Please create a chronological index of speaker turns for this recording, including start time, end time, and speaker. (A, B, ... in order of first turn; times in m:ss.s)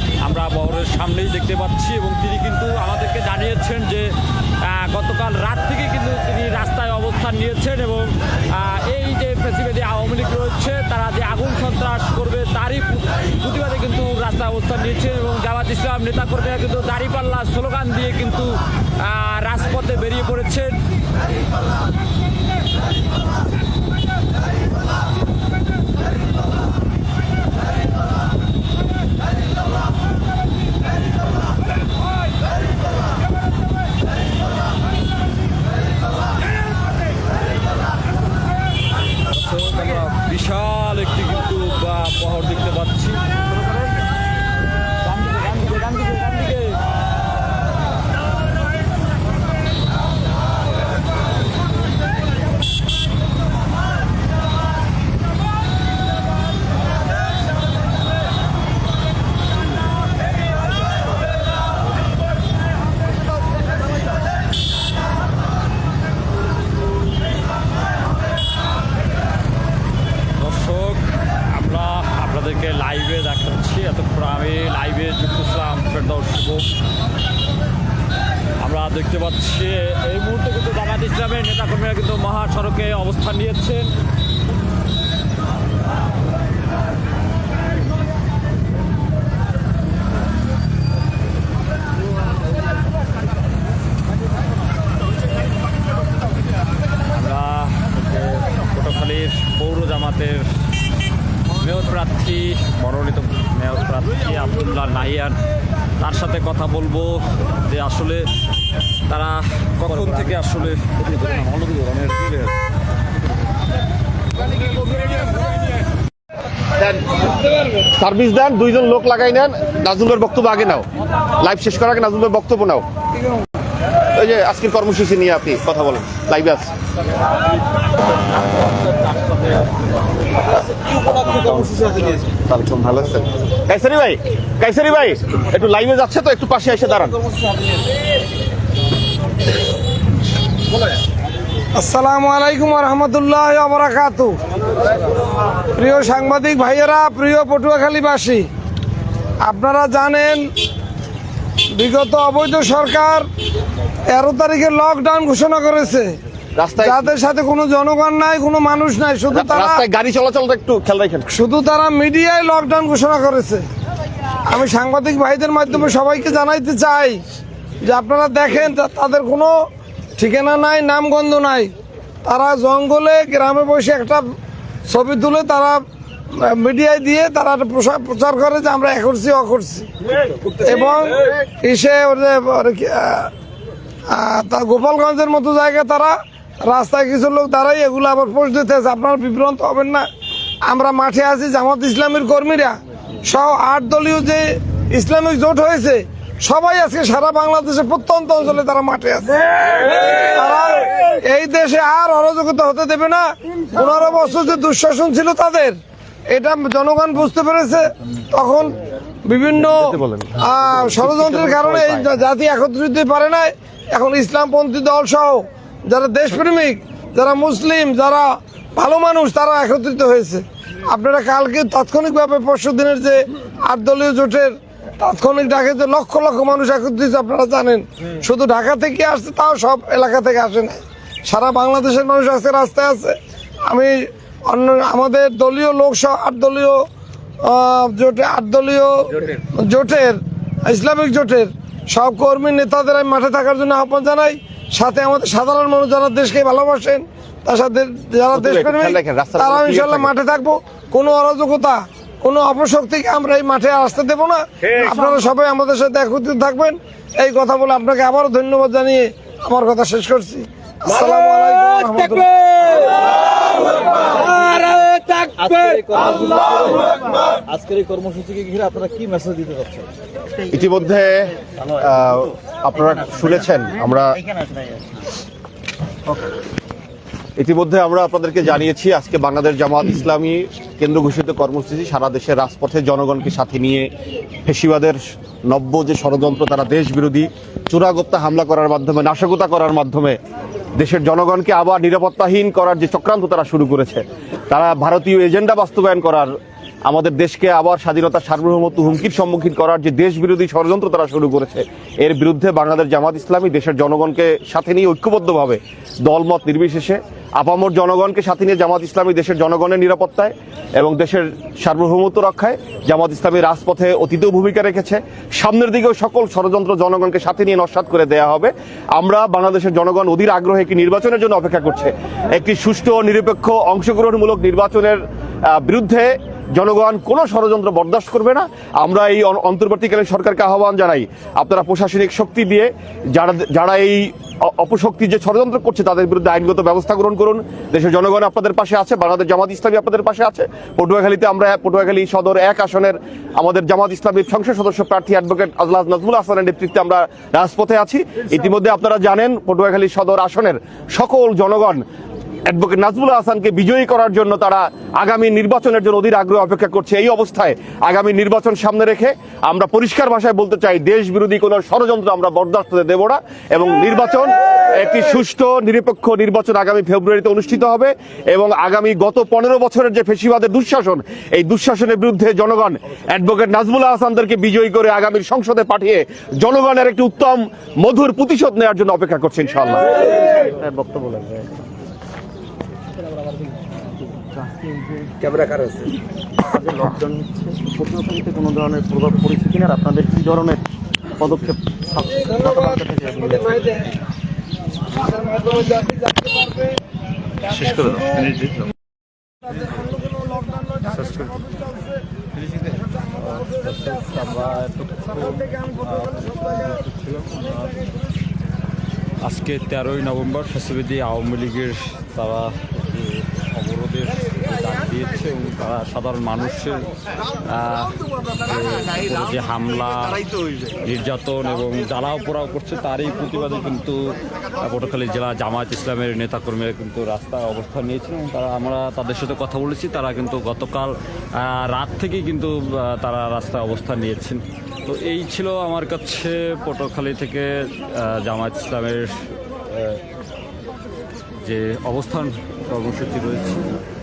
0:00.2-0:20.8 A
0:39.3-0:43.2 A
0:45.1-0:46.8 A
1:10.4-1:16.7 A
1:18.6-1:23.9 A
1:37.1-1:40.6 A
1:41.5-1:45.4 A
1:46.0-1:48.3 A
1:49.1-1:51.0 A
1:50.9-1:52.5 B
1:56.8-1:57.2 C
1:57.9-2:02.9 C
2:04.1-2:06.7 C
2:11.0-2:12.2 B
2:11.3-2:17.2 C
2:21.8-2:24.4 D
2:25.7-2:28.5 D
2:29.4-2:30.5 D
2:31.8-2:33.3 D
2:34.1-2:36.2 D
2:36.6-2:37.1 C
2:36.8-2:39.8 D
2:39.3-2:41.3 C
2:41.3-2:43.6 D
2:44.4-2:47.2 D
2:47.8-2:49.6 D
2:50.2-2:51.7 D
2:52.2-2:54.3 D
2:54.9-2:59.9 D
3:00.6-3:03.3 D
3:04.1-3:10.1 D
3:10.6-3:25.8 D
3:26.3-3:56.9 D
3:31.0-3:31.9 B
3:57.4-4:22.9 D
4:08.3-4:10.1 C
4:24.2-4:25.2 D
4:24.2-4:24.7 B
4:25.3-4:29.9 B
4:30.5-4:34.2 C
4:34.2-4:35.0 B
4:37.4-4:43.9 C
4:44.4-4:50.2 C
4:50.8-4:56.3 C
4:56.9-5:51.8 C
5:52.4-6:20.0 C
6:20.0-6:21.5 B
6:24.3-6:25.9 B
6:26.4-6:30.6 B
6:31.2-6:34.0 B
6:35.1-6:36.4 D
6:37.7-6:38.2 A
6:40.9-6:41.4 A
6:43.2-6:47.7 A
6:49.2-6:56.9 A
6:57.4-7:19.3 A
7:21.4-7:23.6 A